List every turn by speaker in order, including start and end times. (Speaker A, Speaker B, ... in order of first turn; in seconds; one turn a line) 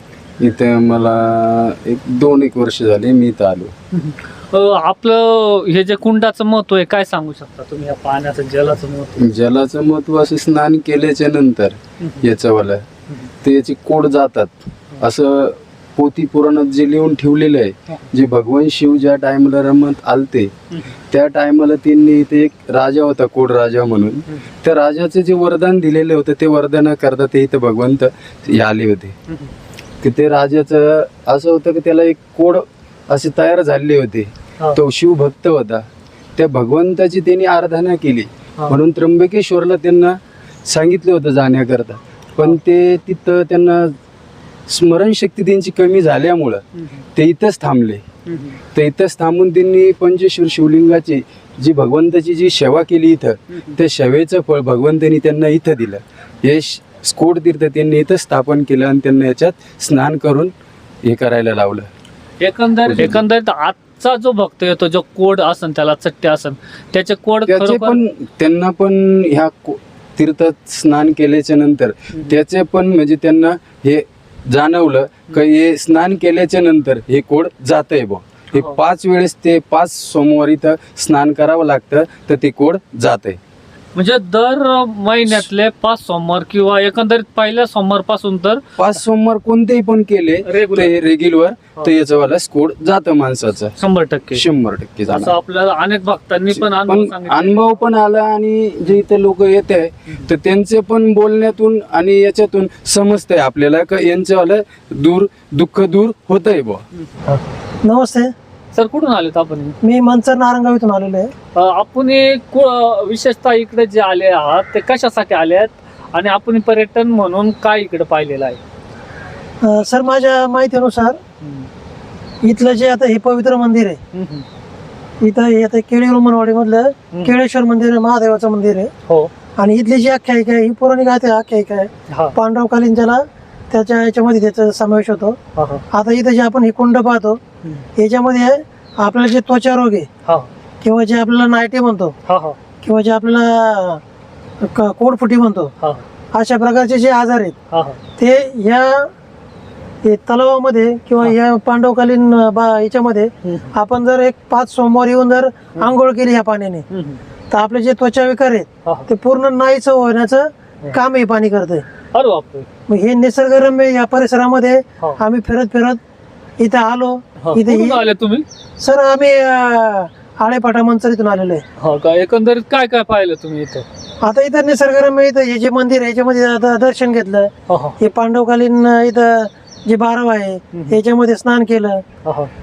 Speaker A: 0.4-3.7
Speaker B: 3.9-9.3
Speaker A: 9.2-12.8
Speaker B: 12.0-12.2
Speaker A: 13.4-20.5
Speaker A: 21.1-29.1
Speaker A: 30.0-35.8
Speaker A: 36.4-43.9
Speaker A: 44.7-46.6
Speaker B: 46.8-47.0
Speaker A: 47.1-48.0
Speaker B: 48.2-48.6
Speaker A: 48.7-60.5
Speaker A: 61.0-61.9
Speaker B: 62.4-68.0
Speaker A: 62.8-63.2
Speaker A: 67.5-83.4
Speaker B: 78.5-78.8
Speaker B: 83.9-88.6
Speaker A: 88.8-93.7
Speaker B: 90.4-90.9
Speaker B: 93.8-94.4
Speaker A: 94.3-95.3
Speaker B: 95.1-97.6
Speaker A: 96.5-106.8
Speaker C: 107.3-108.3
Speaker B: 108.7-109.8
Speaker C: 109.8-111.3
Speaker B: 111.5-118.6
Speaker C: 119.6-121.2
Speaker B: 121.4-121.7
Speaker C: 122.4-124.0
Speaker B: 124.1-124.4
Speaker C: 125.2-128.9
Speaker C: 129.6-135.4
Speaker B: 132.1-132.3
Speaker B: 135.5-135.8
Speaker C: 135.9-137.4
Speaker C: 137.9-140.1
Speaker C: 140.8-142.1
Speaker B: 142.2-142.6
Speaker C: 142.8-144.0
Speaker C: 144.6-145.7
Speaker B: 145.8-146.0
Speaker C: 146.3-147.5
Speaker B: 147.7-148.0
Speaker C: 148.2-149.1
Speaker C: 150.0-156.8
Speaker B: 153.4-153.7
Speaker B: 156.9-157.2
Speaker C: 157.5-161.8
Speaker B: 162.1-162.7
Speaker C: 162.9-166.0
Speaker C: 166.6-168.0
Speaker B: 167.4-168.4
Speaker C: 168.8-171.6
Speaker B: 171.8-173.8
Speaker C: 174.2-182.0
Speaker B: 177.7-178.0
Speaker B: 182.2-182.5